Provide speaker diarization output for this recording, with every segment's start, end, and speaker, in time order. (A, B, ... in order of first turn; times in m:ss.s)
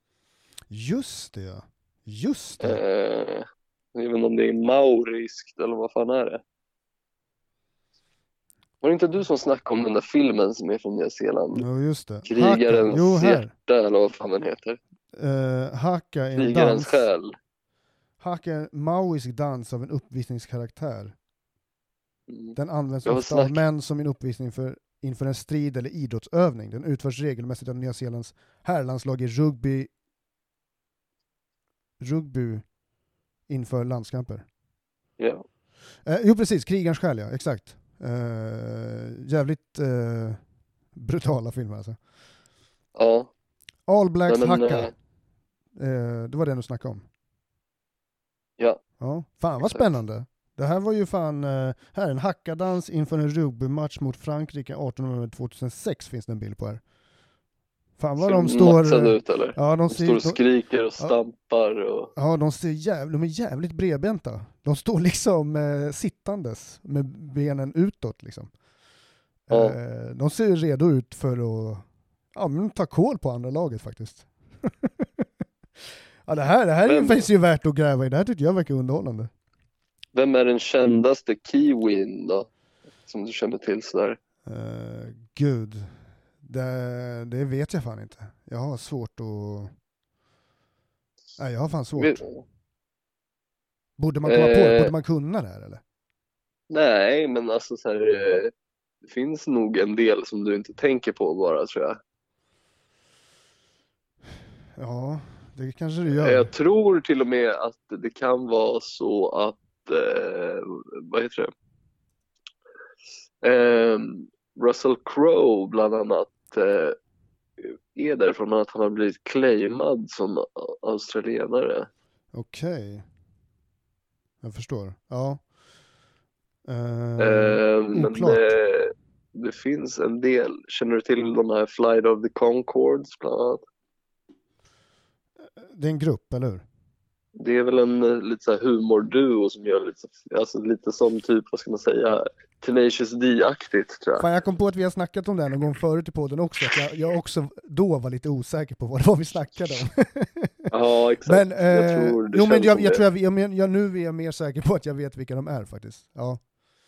0:00.7-0:02.8 A
0:02.6-0:06.4 B
0:08.8-0:11.6 B
0:11.5-0:13.5 A
0:12.2-0:14.8 B
0:15.1-0:17.1 A
0:16.4-0:17.4 B
0:18.2-0:21.1 A
0:22.3-0:23.6 B
0:22.6-0:29.9 A
0:32.0-0:32.6 A
0:33.5-0:34.4 A
0:36.0-0:40.4 A
0:40.9-0:42.0 A
0:43.0-0:43.3 B
0:43.9-0:44.9 A
0:44.3-0:44.9 B
0:45.8-0:47.0 A
0:49.0-0:56.8 A
0:49.6-0:49.9 B
0:58.0-1:00.4 A
0:58.2-1:02.1 B
1:02.2-1:08.5 A
1:09.5-1:15.3 A
1:09.5-1:09.8 B
1:16.2-1:19.3 A
1:16.8-1:17.3 B
1:20.1-1:22.5 B
1:23.0-1:24.2 B
1:24.4-1:29.7 A
1:31.4-1:32.2 A
1:32.0-1:32.4 B
1:34.0-1:35.8 A
1:34.2-1:34.9 B
1:36.7-1:38.5 B
1:39.0-1:42.0 B
1:44.8-1:46.5 A
1:46.1-1:51.5 B
1:53.4-1:57.0 B
1:57.6-2:01.9 B
2:02.3-2:03.0 A
2:04.4-2:05.4 A
2:06.7-2:08.5 A
2:07.2-2:13.6 B
2:15.6-2:16.6 A
2:17.4-2:24.3 B
2:24.2-2:30.7 A
2:30.7-2:33.0 B
2:31.2-2:36.4 A